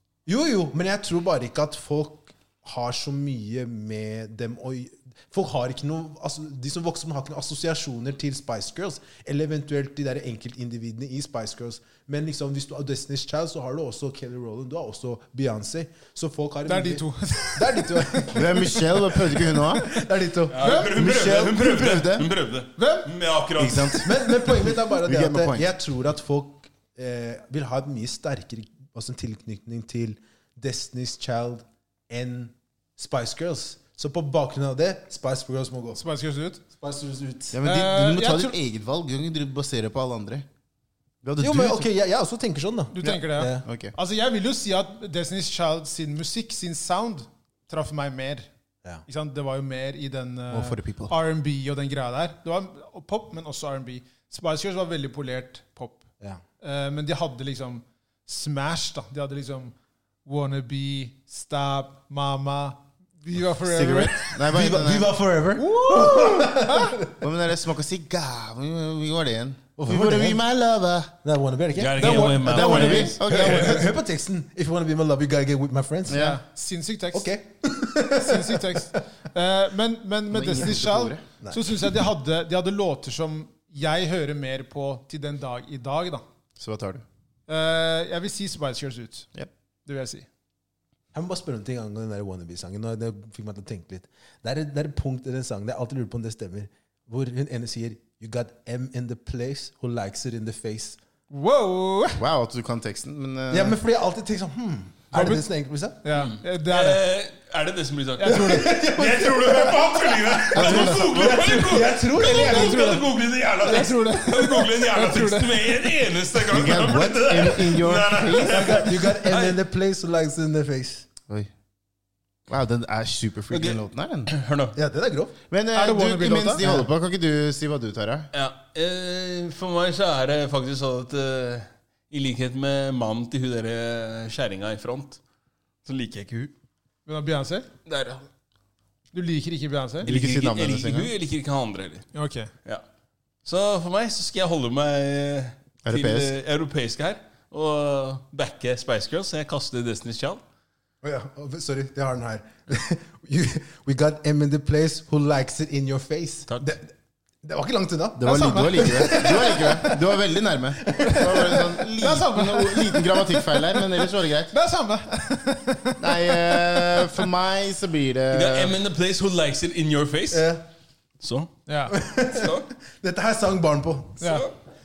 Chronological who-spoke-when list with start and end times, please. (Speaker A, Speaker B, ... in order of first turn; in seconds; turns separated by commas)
Speaker A: 0.3-18.9, Speaker B: 16.7-20.0, Speaker C: 18.3-19.9, Speaker A: 19.6-20.6, Speaker D: 20.5-24.3, Speaker B: 20.6-21.1, Speaker C: 20.9-22.3, Speaker B: 22.8-23.1, Speaker C: 23.6-25.7, Speaker A: 24.0-36.0, Speaker B: 36.0-36.6, Speaker A: 36.7-37.6, Speaker C: 37.5-40.5, Speaker B: 37.6-38.6, Speaker C: 41.2-41.9, Speaker A: 41.4-43.7, Speaker B: 42.9-48.5, Speaker C: 43.0-44.0, Speaker B: 49.1-56.1, Speaker C: 50.5-51.1, Speaker B: 56.6-64.4, Speaker C: 63.6-65.1, Speaker A: 64.5-67.1, Speaker B: 65.6-67.0, Speaker C: 66.0-66.4, Speaker C: 67.1-71.1, Speaker A: 69.8-70.4, Speaker A: 71.2-72.4, Speaker D: 71.8-73.2, Speaker B: 72.0-73.9, Speaker C: 72.4-73.9, Speaker A: 73.2-76.3, Speaker C: 76.1-76.4, Speaker B: 76.1-77.3, Speaker A: 77.1-78.9, Speaker B: 78.0-86.2, Speaker C: 80.3-81.2, Speaker A: 81.4-82.0, Speaker C: 86.6-87.0, Speaker B: 87.5-89.3, Speaker B: 89.8-90.3, Speaker A: 91.1-101.0, Speaker B: 101.3-102.2, Speaker C: 102.2-103.8, Speaker A: 103.5-106.1, Speaker B: 105.1-105.5, Speaker B: 106.0-107.0, Speaker D: 106.1-119.6, Speaker B: 108.2-108.8, Speaker A: 108.2-113.0, Speaker C: 110.5-111.6, Speaker B: 112.2-115.9, Speaker C: 116.5-118.8, Speaker A: 118.5-121.1, Speaker C: 122.5-124.3, Speaker D: 123.5-124.8, Speaker A: 124.8-125.3, Speaker C: 125.5-128.3, Speaker B: 125.7-126.6, Speaker A: 126.6-126.9, Speaker D: 128.3-135.2, Speaker D: 135.8-136.5, Speaker B: 137.1-137.7, Speaker D: 137.9-138.3, Speaker B: 139.1-140.1, Speaker C: 140.0-141.1, Speaker D: 140.0-142.1, Speaker B: 142.2-142.5, Speaker D: 143.4-150.4, Speaker C: 145.8-146.3, Speaker A: 151.0-160.0, Speaker C: 158.2-164.5, Speaker B: 158.3-159.5, Speaker A: 160.9-161.6, Speaker B: 161.1-167.3, Speaker C: 166.0-168.8, Speaker D: 168.3-170.5, Speaker A: 170.3-170.6, Speaker D: 171.2-171.5, Speaker B: 171.7-172.0, Speaker A: 171.9-174.2, Speaker D: 172.2-172.7, Speaker B: 174.2-174.4, Speaker D: 174.2-174.6